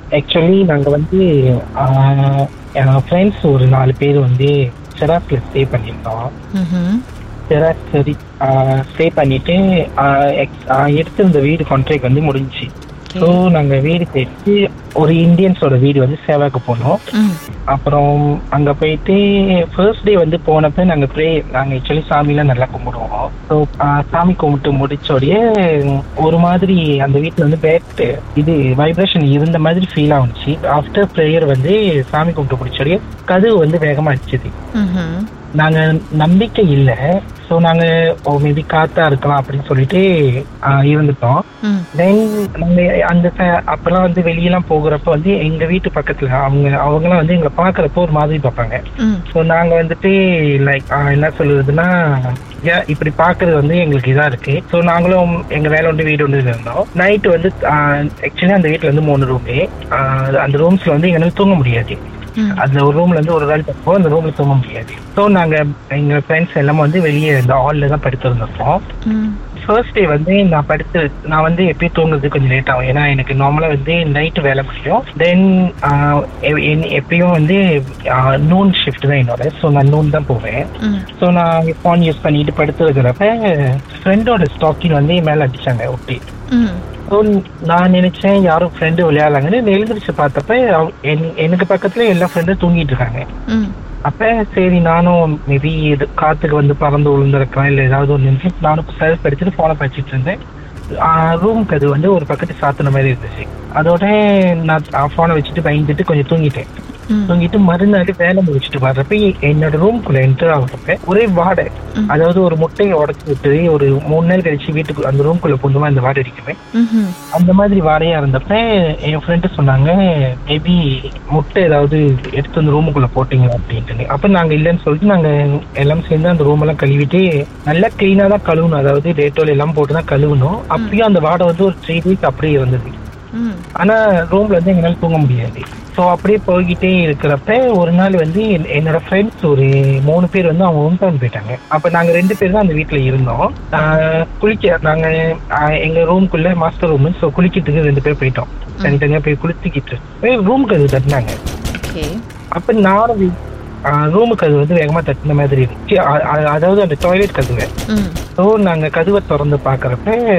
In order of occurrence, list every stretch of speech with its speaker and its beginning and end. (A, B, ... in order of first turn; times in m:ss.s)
0:00.2-0:06.3 A
0:06.6-0:07.0 B
0:07.5-0:17.0 A
0:13.1-0:13.4 B
0:17.1-0:17.4 B
0:17.7-0:34.5 A
0:34.8-0:35.3 B
0:35.6-0:40.0 A
0:40.7-0:41.4 A
0:41.9-0:48.8 A
0:49.0-0:49.3 B
0:49.3-1:02.0 A
1:02.4-1:02.6 B
1:02.5-1:08.8 A
1:09.0-1:09.4 B
1:09.6-1:20.6 A
1:21.2-1:26.2 A
1:26.5-1:26.8 B
1:27.1-1:33.2 A
1:34.1-1:40.4 A
1:41.1-1:46.7 A
1:47.1-1:47.4 B
1:47.3-1:56.6 A
1:56.7-1:57.2 B
1:57.3-2:00.8 A
2:01.3-2:12.9 A
2:13.4-2:13.6 B
2:13.8-2:31.3 A
2:23.8-2:24.0 B
2:31.7-2:32.1 B
2:32.6-2:33.3 A
2:33.9-2:37.7 A
2:37.9-2:38.2 B
2:38.4-2:40.2 A